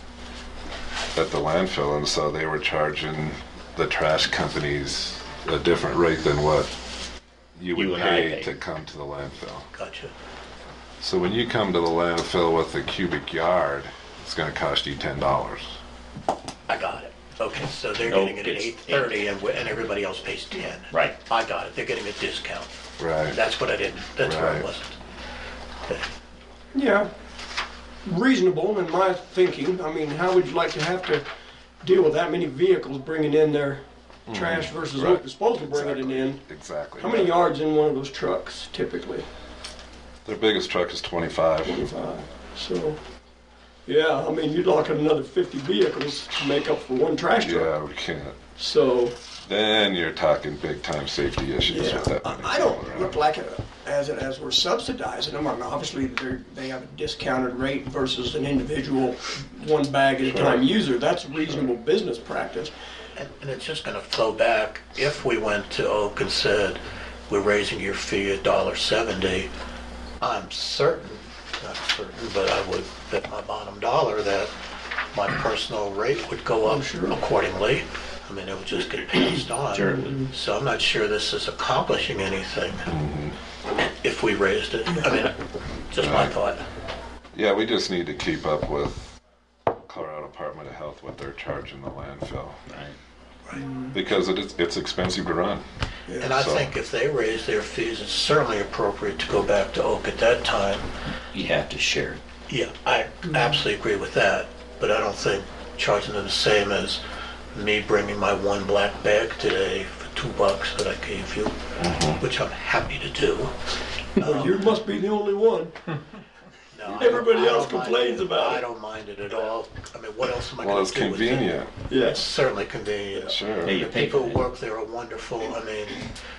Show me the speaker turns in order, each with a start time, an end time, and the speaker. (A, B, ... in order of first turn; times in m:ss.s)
0:01.1-0:06.7 A
0:07.6-0:09.7 A
0:07.7-0:08.5 B
0:09.7-0:10.1 C
0:11.0-0:15.7 A
0:16.7-0:22.7 C
0:18.0-0:19.1 B
0:23.0-0:23.4 A
0:23.2-0:24.9 C
0:24.2-0:24.7 A
0:26.7-0:27.1 D
0:28.0-0:31.2 D
0:31.8-0:36.4 D
0:34.3-0:37.4 A
0:37.0-0:39.3 D
0:40.2-0:41.8 A
0:41.6-0:43.0 D
0:43.8-0:47.7 D
0:47.4-0:48.4 A
0:48.6-0:49.2 D
0:49.4-0:53.2 A
0:51.6-1:02.7 D
1:00.2-1:00.7 A
1:03.2-1:09.5 C
1:10.2-1:14.5 C
1:15.1-1:22.9 C
1:16.6-1:17.2 D
1:19.7-1:20.3 B
1:22.9-1:23.4 A
1:23.8-1:25.4 C
1:25.9-1:26.6 C
1:26.0-1:26.4 A
1:27.3-1:29.2 A
1:29.8-1:32.6 A
1:32.7-1:33.0 B
1:33.6-1:34.0 D
1:33.9-1:35.6 A
1:36.2-1:40.9 C
1:36.2-1:36.7 A
1:41.3-1:42.2 B
1:42.5-1:47.0 C
1:47.5-1:53.6 C
1:51.8-1:52.2 A
1:54.2-1:54.7 C
1:54.2-1:55.7 D
1:56.7-2:06.1 C
1:56.8-1:57.3 A
1:57.0-1:58.6 D
2:00.6-2:01.8 A
2:01.9-2:02.3 D
2:03.2-2:03.8 A
2:03.6-2:04.4 B